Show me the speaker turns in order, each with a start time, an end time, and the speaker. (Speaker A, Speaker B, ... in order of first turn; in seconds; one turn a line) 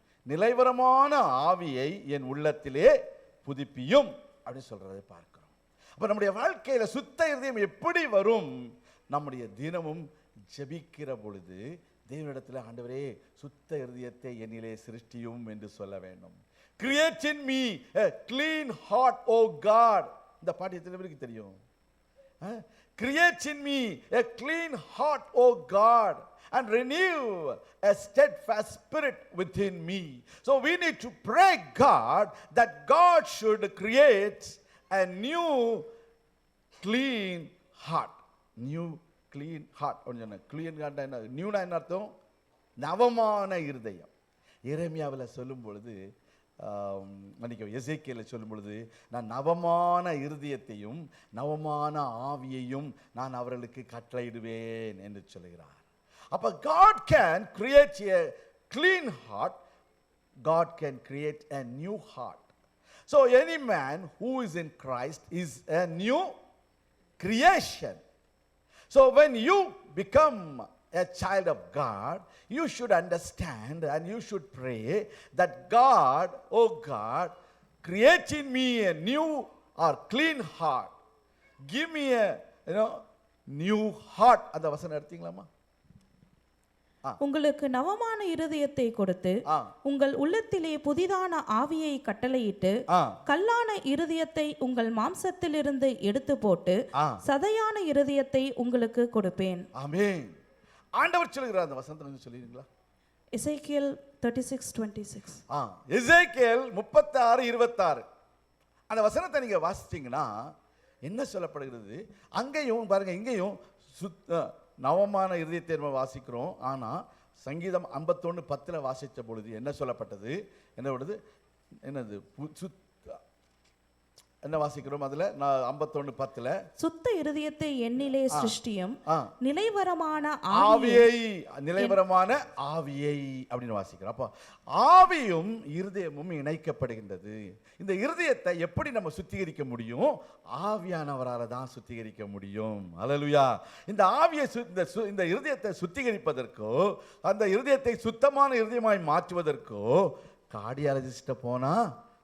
Speaker A: 0.3-8.5
Speaker A: 9.1-21.6
Speaker A: 22.4-35.9
Speaker A: 36.8-42.1
Speaker A: 42.8-44.1
Speaker A: 44.7-46.0
Speaker A: 46.6-55.8
Speaker A: 56.3-59.6
Speaker A: 60.5-62.5
Speaker A: 63.1-66.3
Speaker A: 67.2-68.0
Speaker A: 68.9-80.9
Speaker A: 81.7-83.0
Speaker A: 83.5-85.5
Speaker B: 87.2-99.6
Speaker A: 89.5-89.7
Speaker A: 92.9-93.2
Speaker A: 96.9-97.2
Speaker A: 99.8-100.3
Speaker A: 101.0-102.7
Speaker B: 103.3-105.4
Speaker A: 105.5-108.0
Speaker A: 108.9-110.3
Speaker A: 111.0-121.2
Speaker A: 121.8-123.2
Speaker A: 124.4-126.6
Speaker B: 126.8-131.1
Speaker A: 128.3-129.3
Speaker A: 130.5-151.8